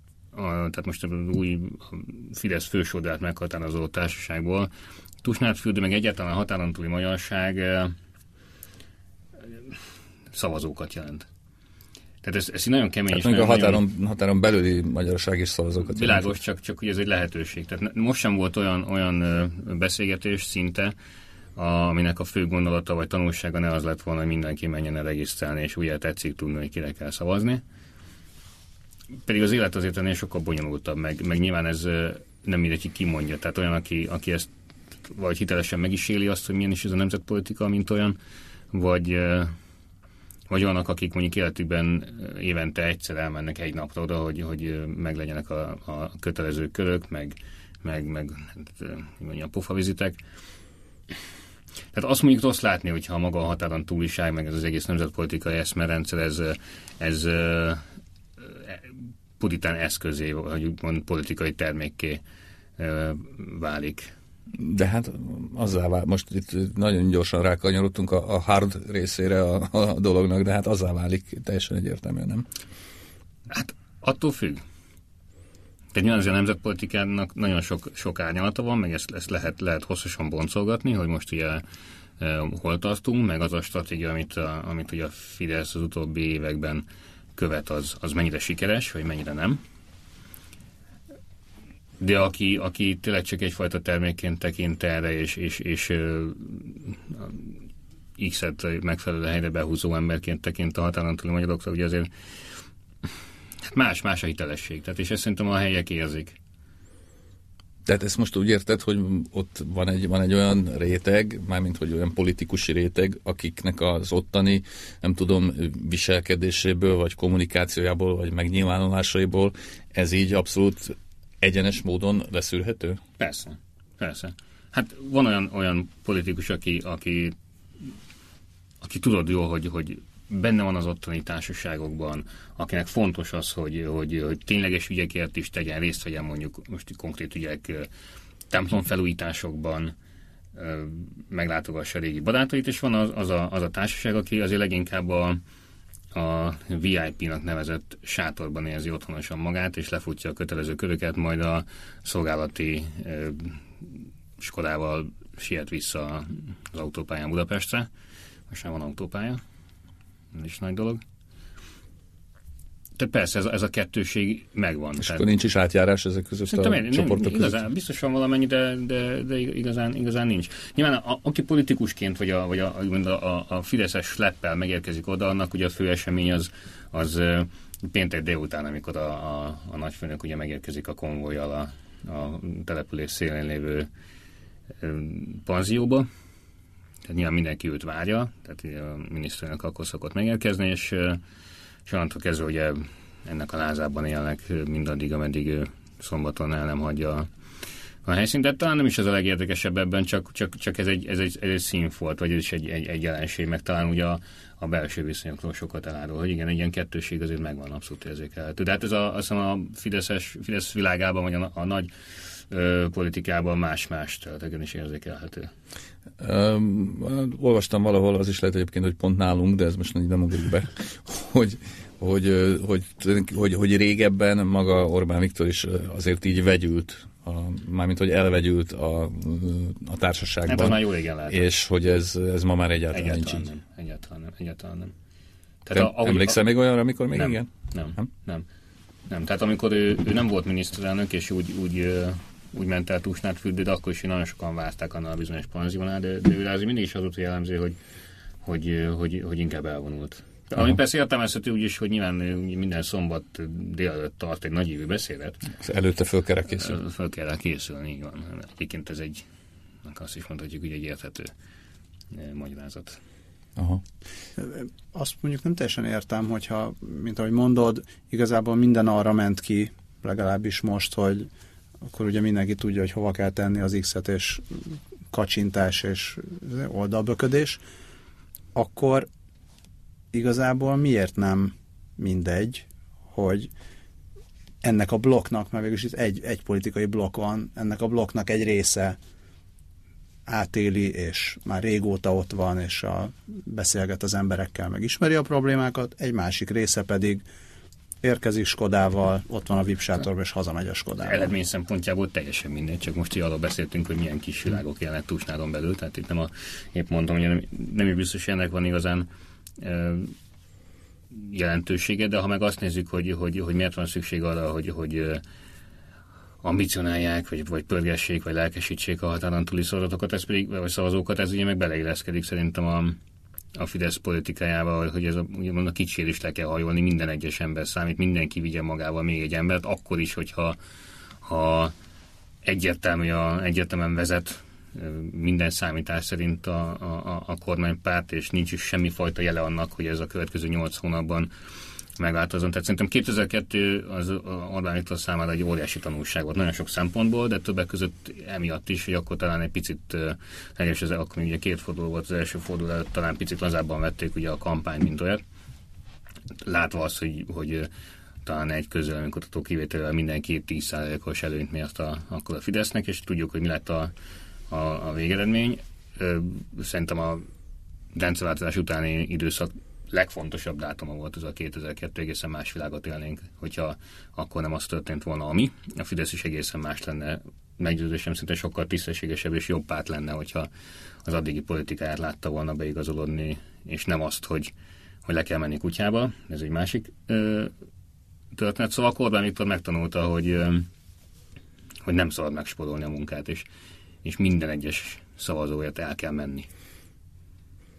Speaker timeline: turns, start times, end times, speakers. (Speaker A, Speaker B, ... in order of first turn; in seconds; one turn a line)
Speaker A: 0.3-4.7
Speaker A: 5.2-8.0
Speaker A: 10.3-11.3
Speaker A: 12.2-13.8
Speaker B: 13.1-16.4
Speaker A: 15.8-20.9
Speaker A: 21.6-27.6
Speaker A: 29.2-34.5
Speaker A: 35.0-38.2
Speaker A: 38.7-39.6
Speaker A: 40.5-50.2
Speaker A: 51.9-57.8
Speaker A: 58.4-58.9
Speaker A: 59.4-62.2
Speaker A: 62.8-64.1
Speaker B: 64.6-72.5
Speaker A: 73.5-74.6
Speaker A: 75.9-81.6
Speaker A: 82.2-86.8
Speaker A: 87.3-89.6
Speaker A: 92.0-97.5
Speaker A: 98.2-102.1
Speaker A: 103.7-106.3
Speaker B: 107.8-123.0
Speaker A: 123.2-127.3
Speaker A: 128.8-137.9
Speaker A: 138.5-139.9
Speaker A: 140.6-145.4
Speaker A: 146.1-153.6
Speaker A: 154.4-157.9
Speaker A: 158.5-159.4
Speaker A: 160.3-161.0
Speaker A: 163.0-165.3
Speaker B: 165.0-167.6
Speaker A: 166.5-183.9
Speaker A: 184.8-186.1
Speaker A: 187.1-191.2
Speaker A: 191.8-197.3
Speaker A: 198.0-211.9
Speaker A: 212.5-215.5
Speaker B: 216.2-233.5
Speaker A: 230.5-231.4
Speaker A: 232.9-234.9
Speaker A: 235.7-236.4
Speaker B: 235.7-238.1
Speaker A: 237.1-238.4
Speaker A: 239.1-247.8
Speaker A: 248.4-255.4
Speaker B: 255.6-256.8
Speaker A: 256.6-259.2
Speaker A: 259.8-261.3
Speaker A: 262.1-263.0
Speaker B: 263.6-263.8
Speaker C: 264.4-271.3
Speaker C: 271.8-274.6
Speaker C: 275.1-277.6
Speaker C: 278.6-279.1
Speaker C: 280.1-283.5
Speaker C: 284.6-289.0
Speaker C: 290.3-297.2
Speaker C: 298.0-301.3
Speaker A: 301.0-309.1
Speaker A: 309.6-310.1
Speaker A: 311.1-315.2
Speaker A: 316.4-323.0
Speaker A: 323.6-330.6
Speaker A: 331.2-331.7
Speaker A: 332.4-341.3
Speaker A: 342.0-355.2
Speaker A: 356.4-357.7
Speaker A: 358.2-363.9
Speaker A: 364.5-367.3
Speaker A: 367.9-380.5
Speaker A: 381.0-384.5
Speaker A: 385.1-387.5
Speaker A: 388.3-390.7
Speaker A: 391.8-393.5
Speaker A: 394.0-396.5